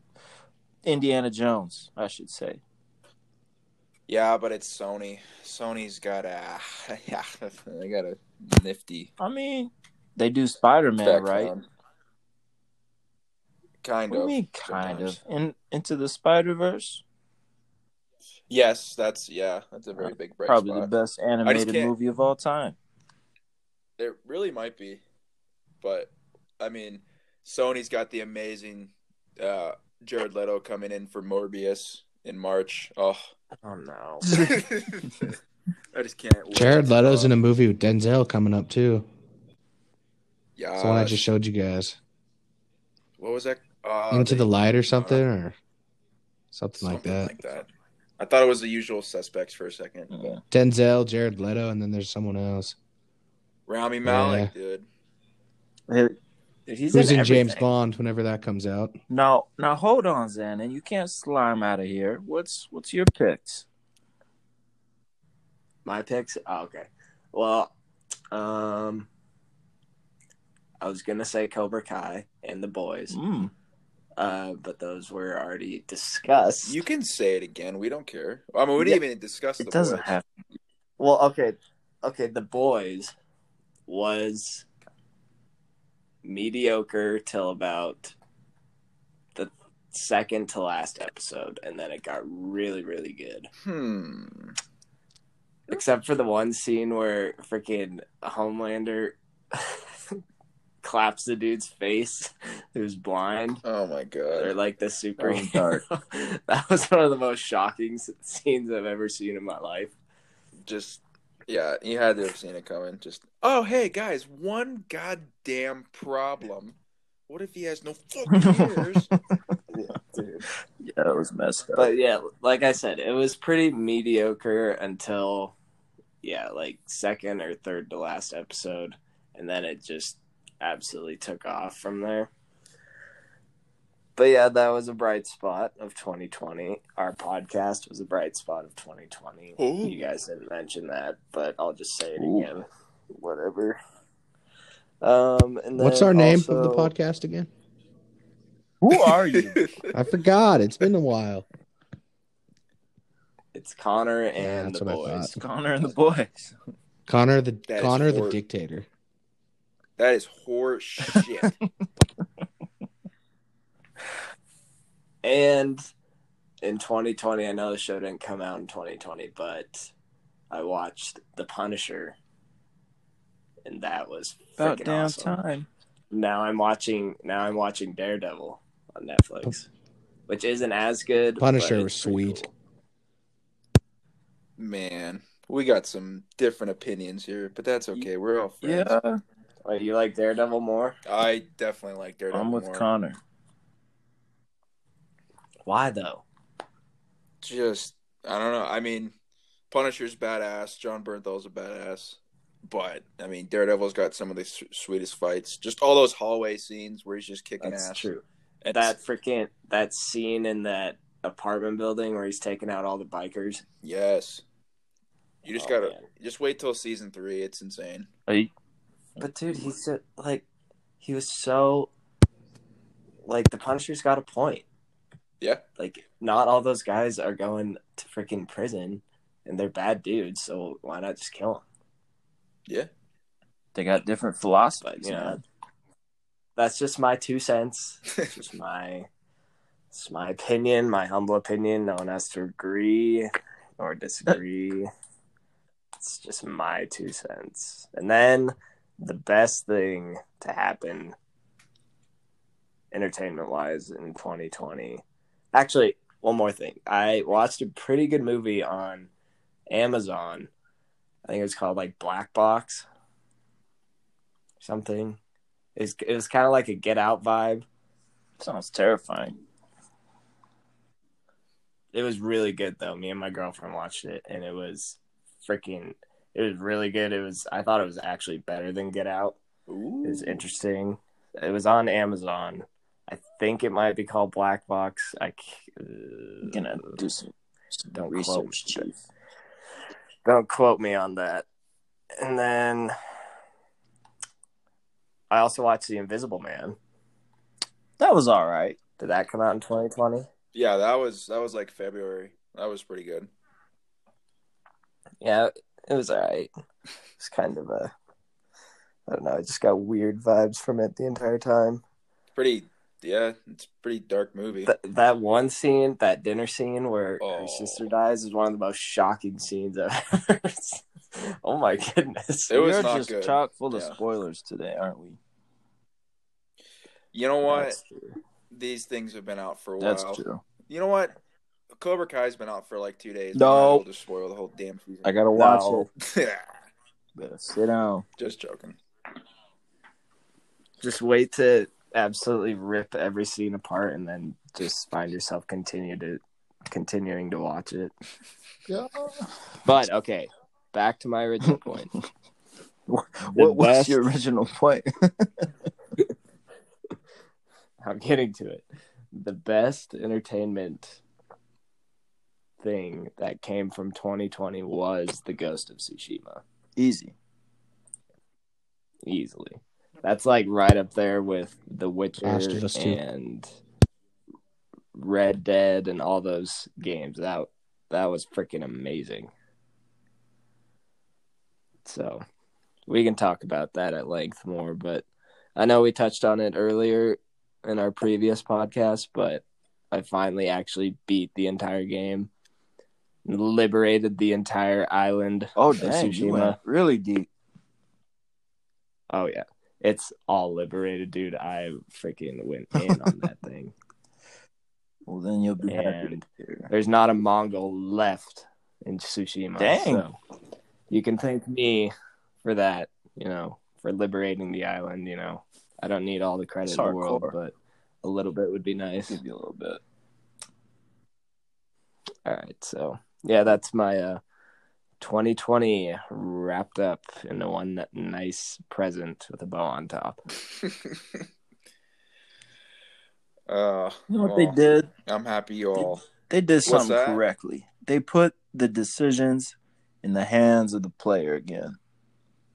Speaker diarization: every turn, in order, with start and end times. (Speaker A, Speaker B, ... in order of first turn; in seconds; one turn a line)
Speaker A: 0.8-2.6
Speaker B: 4.1-9.1
Speaker A: 9.2-11.5
Speaker B: 11.0-11.7
Speaker B: 13.8-15.2
Speaker A: 14.1-17.0
Speaker B: 18.5-20.9
Speaker A: 20.0-22.8
Speaker B: 21.4-21.9
Speaker B: 24.0-25.0
Speaker B: 25.8-33.3
Speaker C: 33.6-34.3
Speaker A: 34.3-34.6
Speaker B: 34.4-35.3
Speaker B: 35.9-37.4
Speaker D: 36.5-39.1
Speaker B: 40.6-41.2
Speaker D: 40.8-42.0
Speaker B: 43.2-45.2
Speaker D: 44.1-45.5
Speaker D: 46.5-47.3
Speaker B: 46.8-47.7
Speaker B: 48.2-50.1
Speaker A: 50.1-50.4
Speaker D: 50.5-52.8
Speaker B: 53.7-54.9
Speaker D: 54.0-54.5
Speaker A: 55.9-56.2
Speaker C: 56.7-57.7
Speaker D: 56.9-59.0
Speaker A: 59.1-63.6
Speaker C: 65.8-67.7
Speaker C: 68.3-69.1
Speaker C: 70.8-73.2
Speaker A: 73.1-73.5
Speaker C: 74.2-76.8
Speaker B: 76.7-80.1
Speaker A: 79.6-80.2
Speaker C: 81.0-83.1
Speaker C: 83.9-84.7
Speaker C: 86.2-88.1
Speaker C: 89.3-93.5
Speaker B: 93.6-94.5
Speaker C: 95.7-99.8
Speaker C: 100.8-103.6
Speaker B: 103.7-104.5
Speaker C: 104.3-109.9
Speaker A: 105.2-105.8
Speaker B: 110.7-116.8
Speaker B: 117.3-119.1
Speaker A: 118.4-119.0
Speaker C: 119.7-120.5
Speaker A: 120.8-121.9
Speaker C: 121.8-125.5
Speaker C: 126.2-132.3
Speaker C: 134.2-143.8
Speaker B: 139.6-140.0
Speaker A: 142.2-142.5
Speaker C: 145.0-146.9
Speaker D: 145.8-147.5
Speaker A: 148.8-149.7
Speaker B: 148.9-149.9
Speaker D: 149.9-151.4
Speaker C: 153.6-155.4
Speaker D: 154.4-155.3
Speaker A: 155.4-156.6
Speaker D: 157.1-158.9
Speaker B: 157.7-158.4
Speaker B: 160.0-161.5
Speaker C: 165.2-165.9
Speaker C: 166.6-169.9
Speaker C: 170.5-172.2
Speaker C: 173.7-175.4
Speaker A: 174.6-175.7
Speaker C: 176.1-179.7
Speaker C: 180.3-182.5
Speaker D: 181.4-182.4
Speaker B: 184.6-189.0
Speaker A: 188.6-189.2
Speaker C: 189.7-191.0
Speaker B: 191.1-192.9
Speaker A: 192.3-193.2
Speaker C: 195.7-196.2
Speaker B: 197.4-199.1
Speaker B: 199.7-208.1
Speaker C: 207.6-213.6
Speaker B: 208.6-209.0
Speaker B: 213.8-214.4
Speaker B: 215.4-218.1
Speaker C: 215.6-216.0
Speaker C: 219.2-220.4
Speaker C: 221.0-221.9
Speaker C: 223.3-224.7
Speaker C: 225.8-231.6
Speaker A: 233.8-235.4
Speaker C: 234.8-235.4
Speaker C: 236.6-239.1
Speaker C: 239.9-244.9
Speaker C: 246.0-251.2
Speaker C: 252.9-255.0
Speaker C: 255.5-259.1
Speaker C: 259.7-260.5
Speaker C: 261.3-262.9
Speaker C: 264.6-265.2
Speaker C: 265.8-267.7
Speaker A: 268.4-269.4
Speaker C: 271.9-279.4
Speaker B: 279.7-280.4
Speaker C: 280.0-287.0
Speaker A: 286.4-289.0
Speaker C: 287.9-288.9
Speaker C: 290.2-291.5
Speaker C: 292.2-292.9
Speaker C: 295.3-296.8
Speaker A: 298.0-298.8
Speaker C: 299.0-300.3
Speaker B: 300.5-303.3
Speaker C: 305.2-306.5
Speaker C: 307.2-307.9
Speaker C: 309.1-311.8
Speaker B: 312.4-314.7
Speaker C: 314.6-322.6
Speaker B: 317.2-317.9
Speaker B: 322.5-324.0
Speaker A: 322.5-325.2
Speaker B: 327.1-327.8
Speaker C: 327.5-328.2
Speaker B: 328.5-331.2
Speaker A: 329.8-330.4
Speaker B: 331.8-335.1
Speaker A: 333.3-333.9
Speaker A: 335.1-335.9
Speaker C: 335.3-335.9
Speaker B: 336.1-336.5
Speaker A: 337.2-338.1
Speaker B: 338.2-338.8
Speaker C: 340.8-347.9
Speaker A: 348.7-349.3
Speaker C: 349.6-351.9
Speaker A: 353.2-355.5
Speaker C: 353.3-354.0
Speaker C: 357.8-361.0
Speaker C: 362.6-366.4
Speaker A: 366.8-367.1
Speaker C: 369.1-373.5
Speaker D: 372.2-373.0
Speaker C: 374.9-379.3
Speaker C: 381.9-382.2
Speaker C: 382.9-392.3
Speaker C: 393.3-396.6
Speaker A: 395.6-397.3
Speaker C: 399.1-403.8
Speaker A: 405.1-406.7
Speaker C: 405.7-410.2
Speaker A: 409.6-410.1
Speaker C: 410.9-411.9
Speaker C: 412.4-419.2
Speaker A: 416.6-417.4
Speaker A: 419.1-419.8
Speaker C: 422.2-424.2
Speaker C: 425.0-430.2
Speaker B: 430.6-430.9
Speaker B: 433.5-436.0
Speaker A: 434.1-434.9
Speaker A: 435.8-441.8
Speaker B: 436.6-437.2